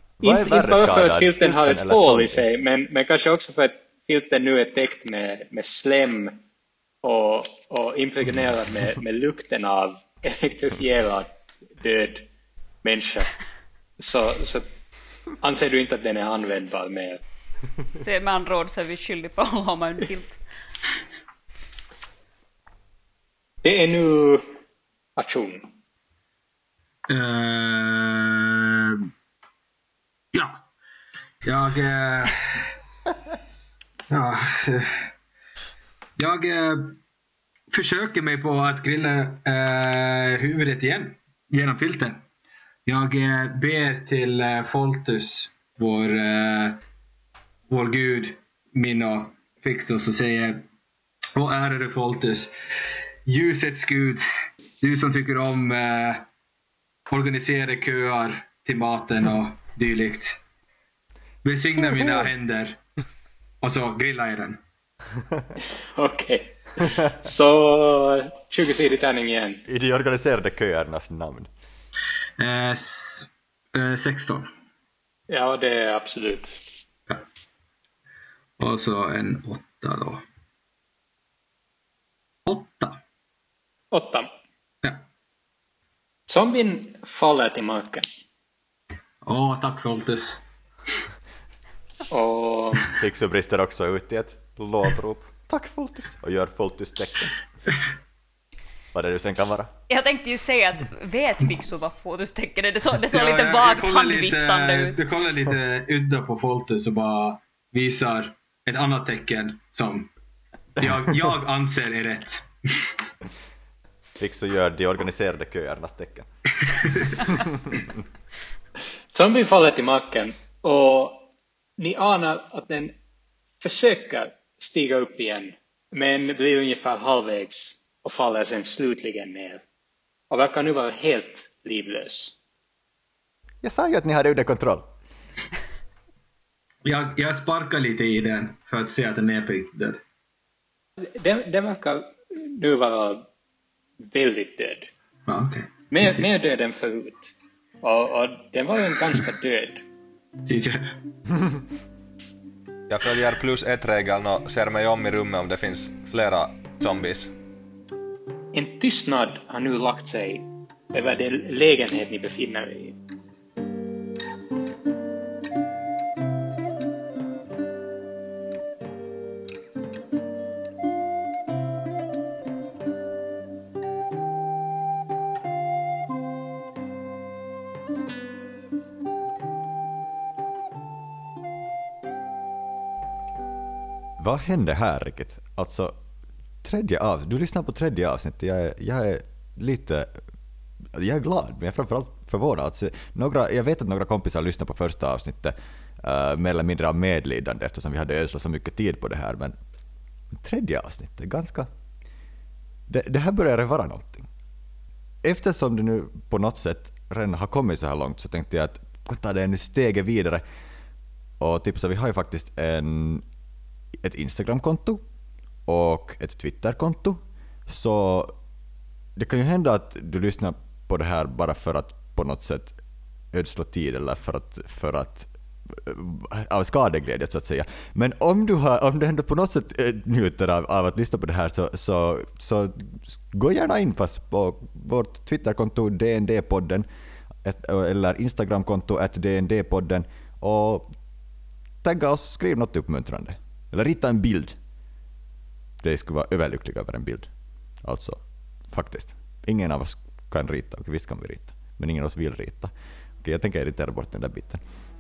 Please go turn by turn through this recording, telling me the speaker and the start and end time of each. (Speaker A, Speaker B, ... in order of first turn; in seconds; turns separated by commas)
Speaker A: 0.2-2.5, Speaker B: 0.2-6.4, Speaker B: 7.0-12.3, Speaker B: 12.8-13.3, Speaker B: 14.0-14.7, Speaker B: 15.4-17.2, Speaker C: 18.0-20.4, Speaker B: 23.6-24.4, Speaker B: 25.2-25.7, Speaker D: 27.1-29.1, Speaker D: 30.3-30.6, Speaker D: 31.4-32.7, Speaker D: 34.1-35.1, Speaker D: 36.2-37.0, Speaker D: 37.7-42.2, Speaker D: 42.9-46.8, Speaker D: 47.7-50.6, Speaker D: 51.4-52.5, Speaker D: 53.2-54.2, Speaker D: 54.8-56.2, Speaker D: 57.1-60.4, Speaker D: 61.4-62.8, Speaker D: 63.6-64.6, Speaker B: 65.9-69.7, Speaker A: 69.7-71.5, Speaker D: 72.4-74.5, Speaker B: 75.3-76.6, Speaker D: 78.6-80.2, Speaker D: 82.5-83.0, Speaker B: 83.9-84.3, Speaker B: 86.3-88.1, Speaker D: 89.2-90.4, Speaker B: 92.1-92.9, Speaker A: 92.9-97.3, Speaker A: 98.9-99.7, Speaker C: 99.9-105.0, Speaker D: 103.1-110.1, Speaker D: 110.8-112.9, Speaker A: 114.2-116.3, Speaker D: 116.8-117.1, Speaker A: 117.3-117.6, Speaker B: 119.1-123.0, Speaker B: 123.6-129.6, Speaker B: 130.3-132.4, Speaker A: 133.6-134.9, Speaker D: 136.8-140.0, Speaker B: 141.0-143.3, Speaker B: 144.0-144.9, Speaker D: 145.3-146.2, Speaker B: 145.9-149.8, Speaker D: 150.4-150.9, Speaker E: 152.9-157.3, Speaker B: 158.5-163.0, Speaker A: 184.2-186.0, Speaker A: 186.6-190.2, Speaker A: 190.9-199.6, Speaker A: 200.3-201.7, Speaker A: 202.9-204.3, Speaker A: 205.2-210.4, Speaker A: 211.4-213.2, Speaker A: 214.0-215.0, Speaker A: 215.7-218.3, Speaker A: 219.2-222.8, Speaker A: 223.3-236.9, Speaker A: 237.4-240.9, Speaker A: 241.8-244.6, Speaker A: 245.8-247.3, Speaker A: 247.8-254.6